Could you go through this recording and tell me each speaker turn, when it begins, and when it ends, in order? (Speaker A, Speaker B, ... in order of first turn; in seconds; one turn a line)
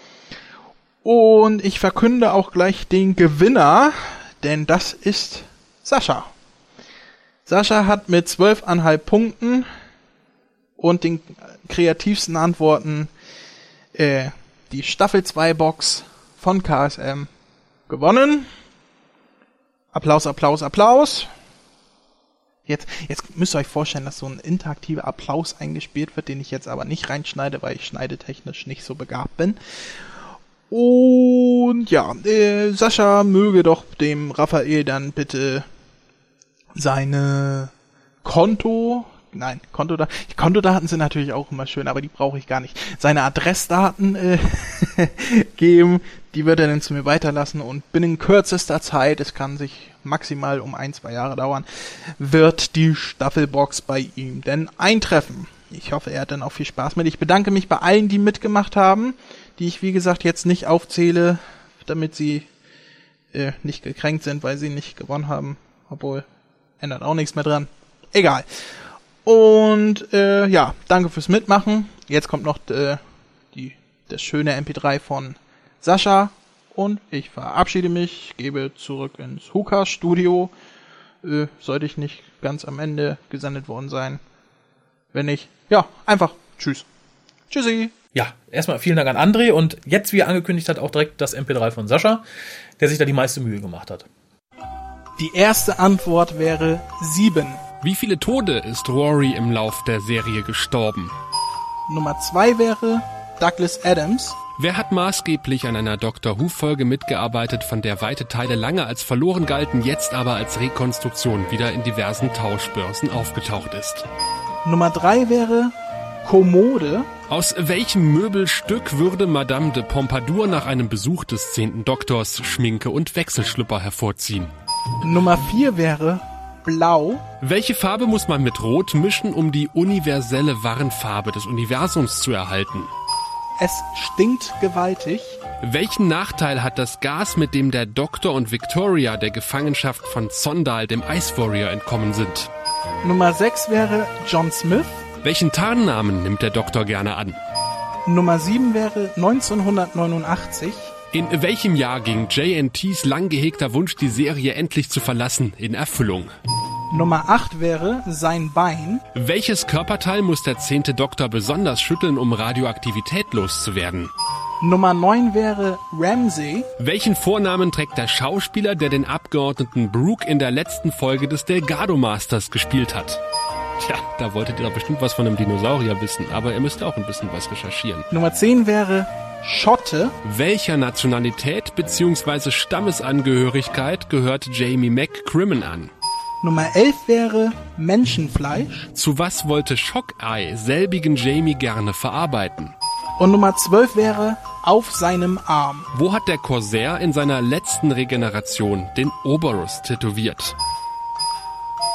Speaker A: 1.0-6.3
Speaker A: 7.5-9.7
Speaker A: 10.8-13.1
Speaker A: 13.9-17.3
Speaker A: 17.9-18.5
Speaker A: 19.9-21.3
Speaker A: 22.7-30.1
Speaker A: 30.7-35.7
Speaker A: 36.8-37.7
Speaker A: 38.2-62.5
Speaker A: 63.3-66.2
Speaker A: 66.8-73.0
Speaker A: 73.5-80.5
Speaker A: 81.2-84.2
Speaker A: 85.1-86.9
Speaker A: 87.5-87.9
Speaker B: 88.1-92.2
Speaker B: 92.8-94.1
Speaker A: 95.2-97.6
Speaker C: 97.8-101.1
Speaker A: 101.9-104.4
Speaker C: 104.6-114.1
Speaker A: 114.7-115.7
Speaker A: 116.2-117.1
Speaker C: 117.3-124.5
Speaker A: 125.0-127.2
Speaker C: 127.4-132.9
Speaker A: 133.6-135.4
Speaker C: 135.6-142.5
Speaker A: 143.0-145.0
Speaker C: 145.2-147.4
Speaker A: 148.1-150.9
Speaker C: 151.1-156.3
Speaker A: 156.9-159.0
Speaker C: 159.2-164.1
Speaker A: 164.6-166.7
Speaker C: 166.8-173.2
Speaker C: 173.8-178.1
Speaker A: 178.1-180.1
Speaker C: 180.2-185.9
Speaker A: 186.4-188.9
Speaker C: 188.9-192.7
Speaker A: 193.2-195.9
Speaker C: 195.9-200.6